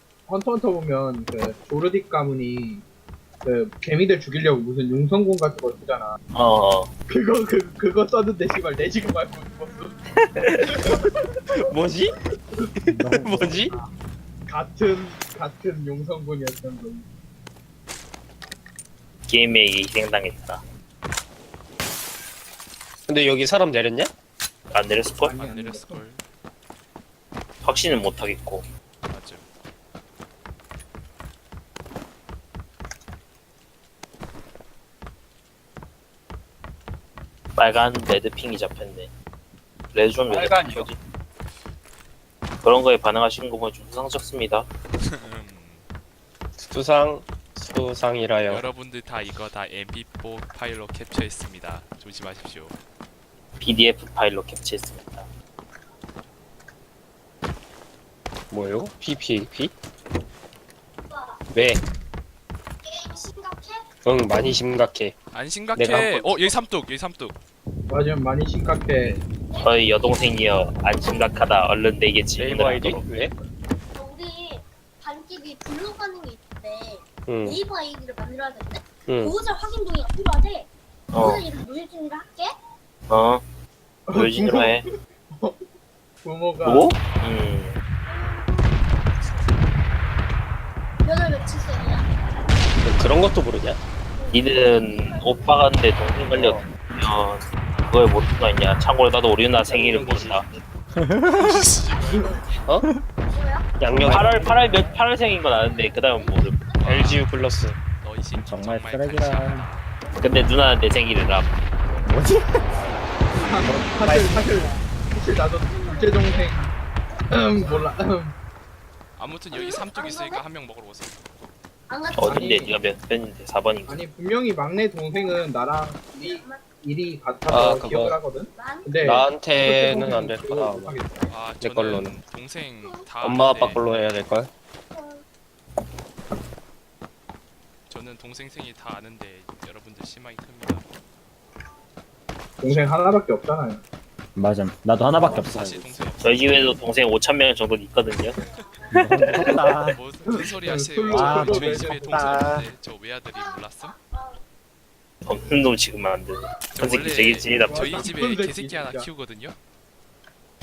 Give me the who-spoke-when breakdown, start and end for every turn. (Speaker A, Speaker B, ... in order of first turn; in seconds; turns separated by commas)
Speaker A: 0.3-2.9, Speaker A: 3.4-6.2, Speaker B: 6.3-6.9, Speaker A: 7.1-10.0, Speaker B: 10.3-10.8, Speaker A: 10.6-11.6, Speaker C: 11.5-12.2, Speaker C: 12.8-13.7, Speaker D: 12.9-13.8, Speaker A: 14.5-17.1, Speaker B: 19.3-20.6, Speaker C: 23.1-24.1, Speaker B: 24.7-25.3, Speaker A: 25.2-26.1, Speaker E: 25.3-26.2, Speaker B: 27.6-28.6, Speaker E: 29.1-29.5, Speaker B: 37.6-39.1, Speaker B: 39.9-41.0, Speaker C: 40.3-40.9, Speaker B: 42.6-44.7, Speaker E: 45.0-45.9, Speaker C: 46.6-48.7, Speaker E: 48.5-52.8, Speaker B: 53.6-55.3, Speaker C: 58.5-59.7, Speaker F: 61.1-61.4, Speaker C: 61.5-61.8, Speaker F: 62.9-63.8, Speaker C: 64.0-65.2, Speaker E: 65.3-67.4, Speaker C: 65.7-66.4, Speaker A: 67.9-69.2, Speaker F: 69.5-71.5, Speaker B: 69.6-73.1, Speaker C: 72.4-73.3, Speaker F: 74.0-82.5, Speaker C: 77.3-77.6, Speaker C: 79.1-79.3, Speaker B: 81.1-81.5, Speaker B: 83.1-83.4, Speaker A: 84.1-84.8, Speaker B: 84.1-84.9, Speaker A: 85.3-85.6, Speaker A: 86.2-86.9, Speaker B: 86.6-87.8, Speaker F: 88.1-89.0, Speaker F: 91.0-92.1, Speaker C: 92.8-93.8, Speaker F: 94.2-95.5, Speaker B: 94.3-100.6, Speaker C: 96.3-96.7, Speaker C: 99.6-100.4, Speaker D: 100.9-101.7, Speaker E: 101.3-102.3, Speaker F: 101.9-102.6, Speaker F: 103.3-103.9, Speaker C: 103.8-104.5, Speaker D: 103.9-104.8, Speaker B: 104.1-106.6, Speaker F: 105.4-107.2, Speaker E: 106.8-107.3, Speaker C: 106.8-107.8, Speaker E: 108.0-109.8, Speaker D: 108.3-109.7, Speaker F: 110.0-110.5, Speaker B: 110.2-111.5, Speaker D: 112.0-112.6, Speaker A: 113.4-116.7, Speaker D: 113.6-114.7, Speaker F: 115.6-117.9, Speaker A: 117.3-118.4, Speaker E: 119.2-121.2, Speaker F: 119.5-120.5, Speaker F: 121.9-122.8, Speaker B: 122.2-124.0, Speaker A: 122.2-122.7, Speaker A: 123.9-131.3, Speaker F: 125.1-125.5, Speaker F: 126.2-126.7, Speaker C: 127.5-128.2, Speaker F: 128.6-129.3, Speaker C: 129.0-130.9, Speaker E: 131.3-133.8, Speaker C: 131.6-132.2, Speaker F: 132.8-133.1, Speaker C: 133.2-134.5, Speaker F: 134.9-135.2, Speaker E: 137.9-140.9, Speaker A: 142.6-143.8, Speaker D: 144.4-145.8, Speaker C: 145.2-145.8, Speaker E: 145.4-146.3, Speaker B: 146.2-148.4, Speaker F: 148.4-149.5, Speaker B: 148.9-149.7, Speaker D: 148.9-150.0, Speaker E: 149.6-153.9, Speaker A: 150.3-152.4, Speaker D: 151.1-152.6, Speaker C: 152.3-152.6, Speaker F: 153.3-154.4, Speaker B: 155.2-158.1, Speaker F: 156.3-156.8, Speaker E: 156.8-159.6, Speaker A: 157.7-159.1